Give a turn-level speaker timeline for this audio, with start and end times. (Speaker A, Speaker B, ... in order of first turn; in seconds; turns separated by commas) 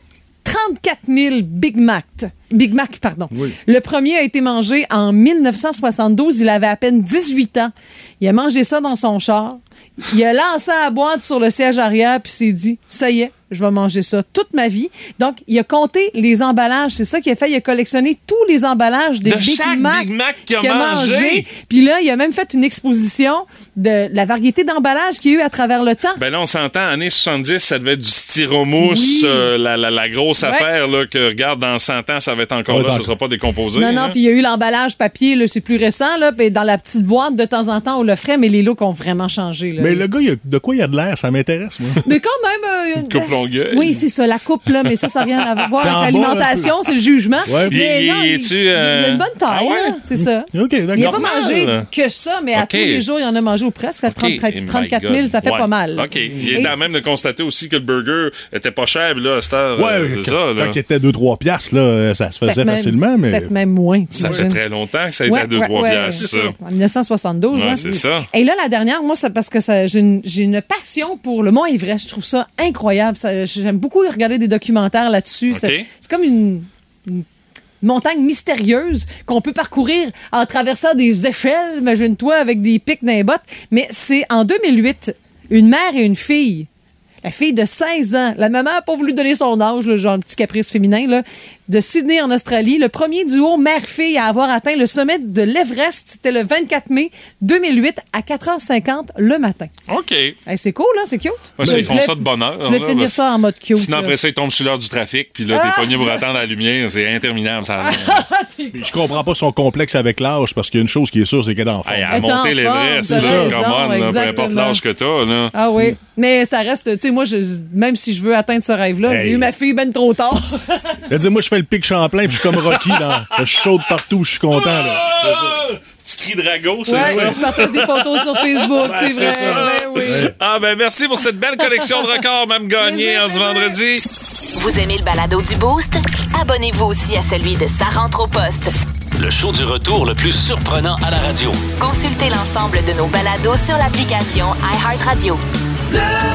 Speaker A: 0.4-26.2, Speaker B: 19.2-21.5, Speaker B: 26.1-34.1, Speaker A: 28.8-29.5, Speaker A: 30.4-30.7, Speaker C: 32.7-33.1, Speaker A: 33.7-40.0, Speaker C: 39.8-42.0, Speaker A: 42.0-56.7, Speaker B: 43.0-44.0, Speaker C: 45.8-46.7, Speaker C: 47.5-47.7, Speaker B: 47.6-50.0, Speaker C: 50.1-51.2, Speaker B: 51.0-51.9, Speaker B: 52.5-53.0, Speaker B: 54.1-60.8, Speaker C: 56.3-56.7, Speaker C: 59.8-63.5, Speaker A: 62.4-64.6, Speaker B: 64.2-66.5, Speaker C: 64.2-64.4, Speaker A: 65.2-77.2, Speaker B: 67.5-68.3, Speaker B: 75.5-75.9, Speaker A: 77.8-86.7, Speaker A: 87.2-99.7, Speaker B: 99.9-100.3, Speaker A: 100.5-104.2, Speaker B: 101.6-103.2, Speaker C: 101.6-102.0, Speaker B: 103.7-108.2, Speaker A: 105.5-106.2, Speaker A: 107.8-108.9, Speaker C: 108.7-112.3, Speaker B: 111.8-115.5, Speaker A: 112.1-114.8, Speaker C: 113.1-113.6, Speaker A: 115.5-121.0, Speaker C: 119.0-119.5, Speaker C: 121.1-125.6, Speaker B: 122.5-123.0, Speaker B: 124.5-134.0, Speaker A: 126.9-130.3, Speaker C: 126.9-127.4, Speaker C: 129.0-130.3, Speaker A: 132.8-133.8, Speaker D: 134.5-138.8, Speaker E: 139.2-141.7, Speaker D: 141.8-145.4